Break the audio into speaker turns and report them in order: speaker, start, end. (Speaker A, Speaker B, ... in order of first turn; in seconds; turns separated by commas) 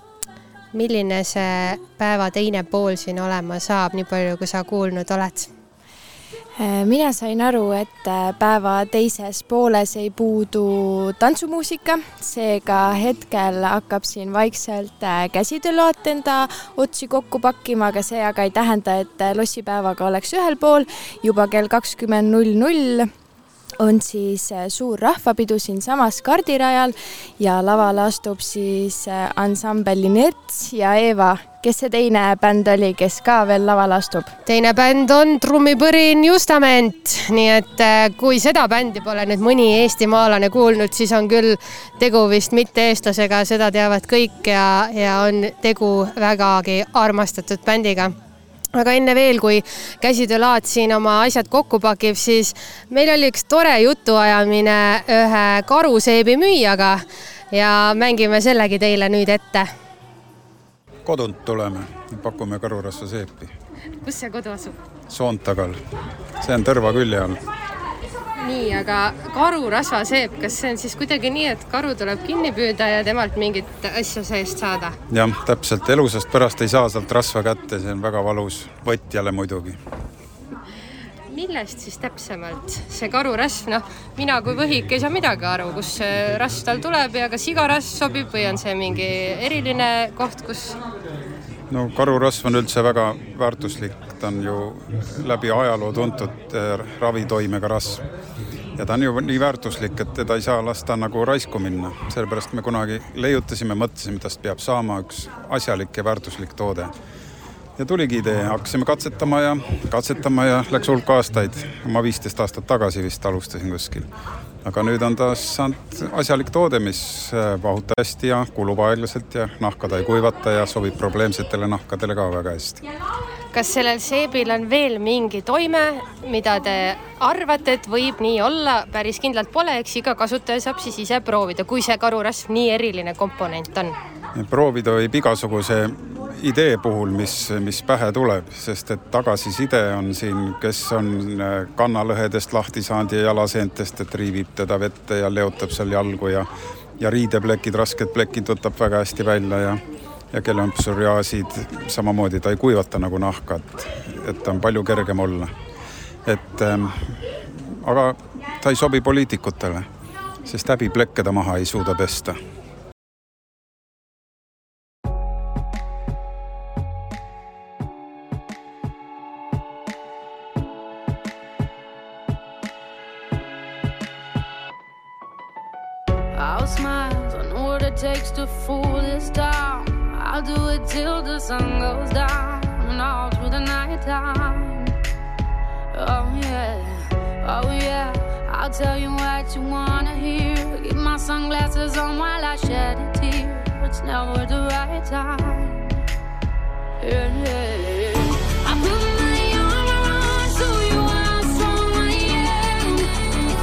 Speaker A: 0.7-5.5, Speaker B: 6.6-23.1, Speaker B: 23.8-34.3, Speaker A: 34.5-48.1, Speaker A: 48.7-59.7, Speaker C: 61.0-63.5, Speaker A: 64.0-64.8, Speaker C: 65.1-65.8, Speaker C: 66.4-67.4, Speaker A: 68.4-75.0, Speaker C: 75.1-79.8, Speaker A: 81.3-90.8, Speaker C: 91.7-98.0, Speaker C: 98.8-106.9, Speaker C: 107.8-114.1, Speaker C: 114.6-122.8, Speaker A: 123.5-134.0, Speaker C: 134.3-149.8, Speaker C: 150.3-155.5, Speaker C: 156.2-159.9, Speaker C: 160.4-162.4, Speaker D: 176.3-184.9, Speaker D: 185.9-195.8, Speaker D: 197.0-203.1